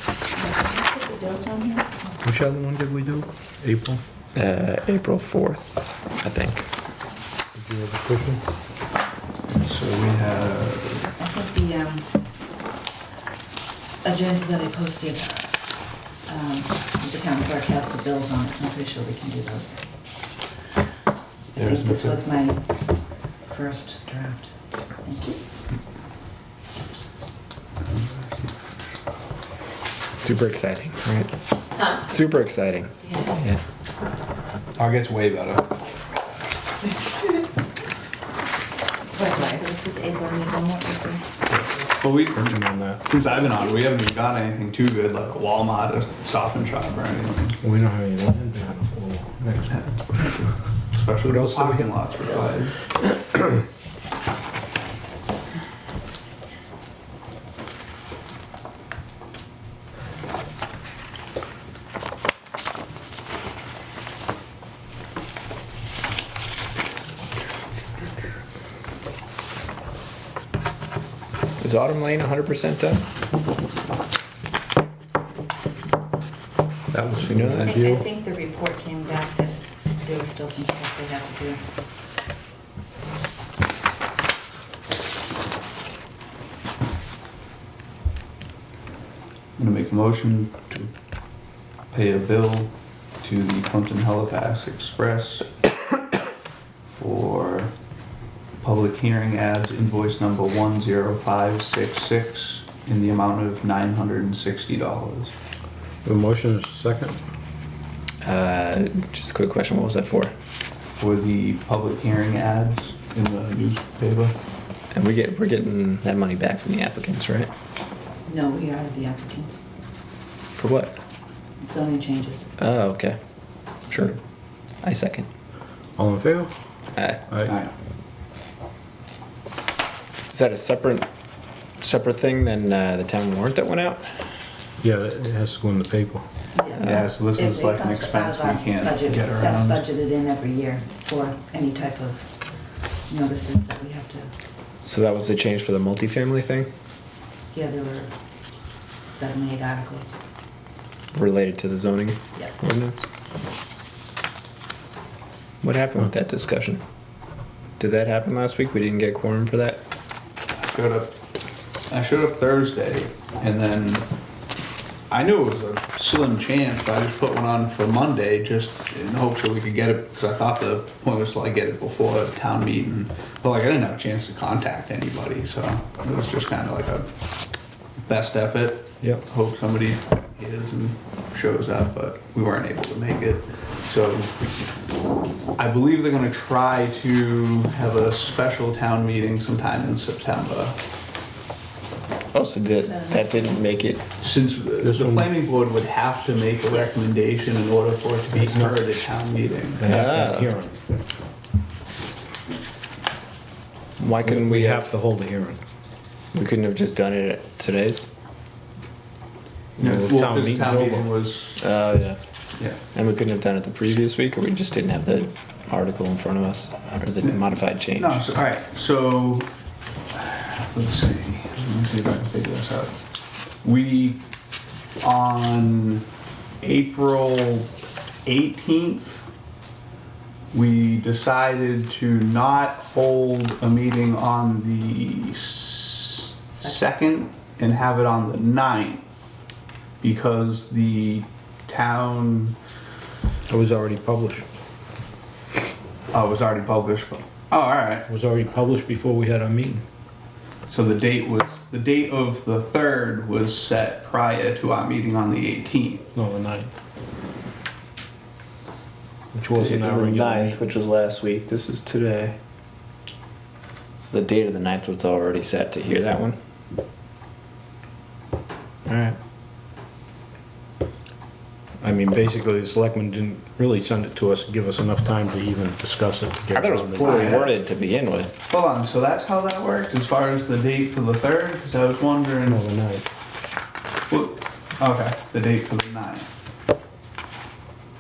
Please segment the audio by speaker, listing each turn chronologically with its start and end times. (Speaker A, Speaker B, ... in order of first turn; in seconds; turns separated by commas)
Speaker A: 0.4-2.1, Speaker B: 2.2-4.0, Speaker C: 4.3-6.7, Speaker B: 7.5-8.4, Speaker D: 9.5-11.1, Speaker A: 11.2-12.2, Speaker A: 14.0-15.6, Speaker A: 16.2-19.8, Speaker D: 21.5-22.2, Speaker A: 21.6-22.7, Speaker A: 23.5-25.4, Speaker D: 27.9-28.6, Speaker C: 30.2-31.3, Speaker C: 31.9-33.6, Speaker D: 34.8-35.8, Speaker A: 39.1-41.3, Speaker D: 41.5-47.6, Speaker B: 42.3-43.0, Speaker B: 47.6-49.8, Speaker D: 49.7-52.8, Speaker B: 51.2-51.9, Speaker C: 71.6-73.0, Speaker B: 76.9-78.0, Speaker C: 77.3-77.7, Speaker A: 77.5-81.6, Speaker D: 89.6-90.9, Speaker D: 91.9-95.5, Speaker D: 97.0-97.7, Speaker D: 98.6-105.3, Speaker B: 106.0-107.2, Speaker C: 108.2-110.3, Speaker D: 111.0-114.4, Speaker C: 114.9-117.5, Speaker A: 118.3-119.6, Speaker C: 120.6-121.0, Speaker A: 121.6-122.5, Speaker C: 122.6-123.2, Speaker C: 123.9-124.2, Speaker C: 124.8-125.3, Speaker B: 126.0-126.5, Speaker C: 127.0-127.2, Speaker B: 127.3-127.5, Speaker D: 127.5-127.7, Speaker C: 130.3-131.1, Speaker C: 131.8-134.1, Speaker B: 134.8-136.2, Speaker A: 136.6-142.3, Speaker D: 136.8-139.8, Speaker A: 143.1-144.3, Speaker C: 144.8-146.7, Speaker A: 147.5-148.1, Speaker A: 149.0-150.2, Speaker C: 151.1-153.1, Speaker C: 155.6-156.8, Speaker C: 157.8-159.8, Speaker D: 160.6-161.1, Speaker D: 161.9-164.1, Speaker D: 165.1-177.1, Speaker D: 178.1-184.3, Speaker D: 185.6-190.8, Speaker C: 192.3-194.0, Speaker A: 192.9-193.4, Speaker D: 194.2-199.8, Speaker B: 194.9-195.3, Speaker B: 198.3-198.9, Speaker B: 199.8-200.8, Speaker C: 199.8-200.5, Speaker C: 204.0-204.9, Speaker B: 204.2-205.6, Speaker C: 206.3-208.1, Speaker B: 209.8-211.1, Speaker D: 209.8-211.6, Speaker C: 211.6-212.2, Speaker C: 212.9-218.2, Speaker D: 218.0-219.5, Speaker D: 220.1-222.9, Speaker D: 223.6-224.2, Speaker D: 225.0-226.0, Speaker D: 226.6-227.7, Speaker D: 228.2-229.3, Speaker D: 230.5-239.2, Speaker A: 236.5-236.8, Speaker D: 240.0-242.6, Speaker B: 243.5-244.5, Speaker D: 246.1-248.1, Speaker B: 248.1-249.8, Speaker D: 250.7-256.1, Speaker B: 256.1-256.8, Speaker B: 259.3-260.6, Speaker C: 259.6-262.4, Speaker C: 264.0-266.4, Speaker C: 268.9-269.2, Speaker B: 271.8-277.4, Speaker C: 276.5-278.3, Speaker D: 277.0-277.5, Speaker D: 278.5-282.7, Speaker B: 282.5-283.1, Speaker D: 284.1-286.3